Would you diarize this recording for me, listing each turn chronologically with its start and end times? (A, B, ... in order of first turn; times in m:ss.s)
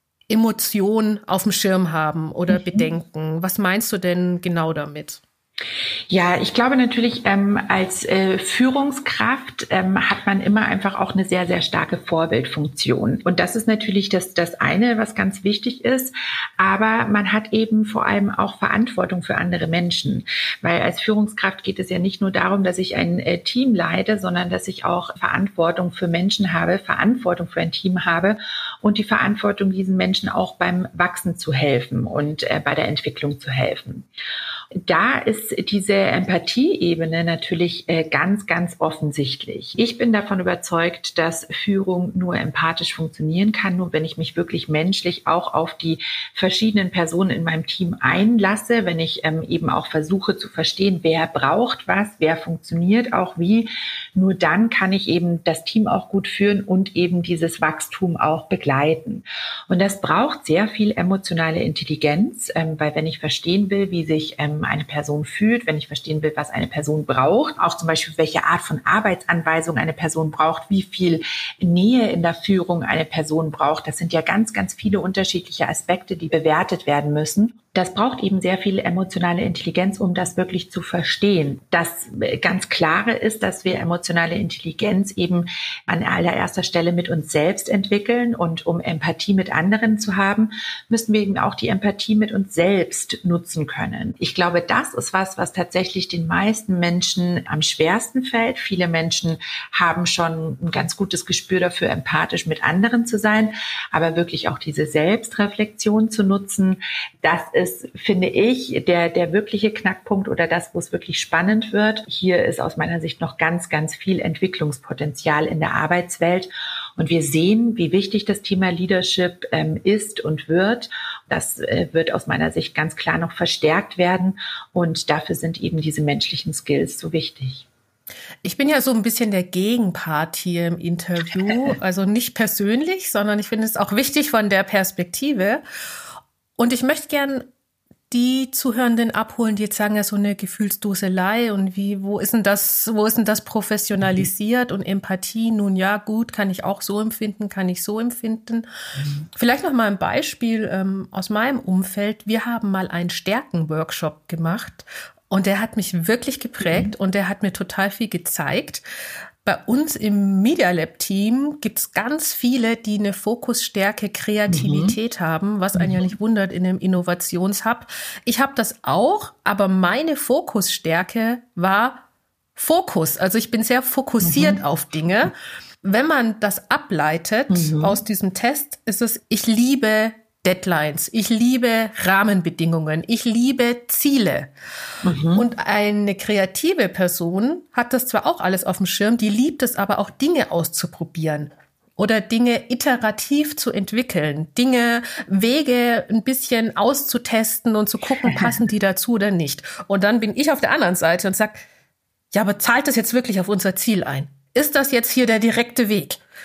0:00.3-0:05.2 A
0:02.5-0:02.9 B
0:06.1-0:34.1 B
0:34.7-2:07.7 B
2:08.4-2:15.6 A
2:16.6-2:17.5 A
2:18.1-2:28.7 A
2:29.3-2:38.8 A
2:36.6-2:36.9 B
2:39.4-2:52.0 A
2:44.5-2:45.0 B
2:45.8-2:46.1 B
2:52.6-3:04.5 A
2:54.2-2:54.6 B
2:57.5-2:58.0 B
3:05.0-3:05.4 B
3:05.3-3:21.6 A
3:18.3-3:18.6 B
3:22.3-3:26.2 A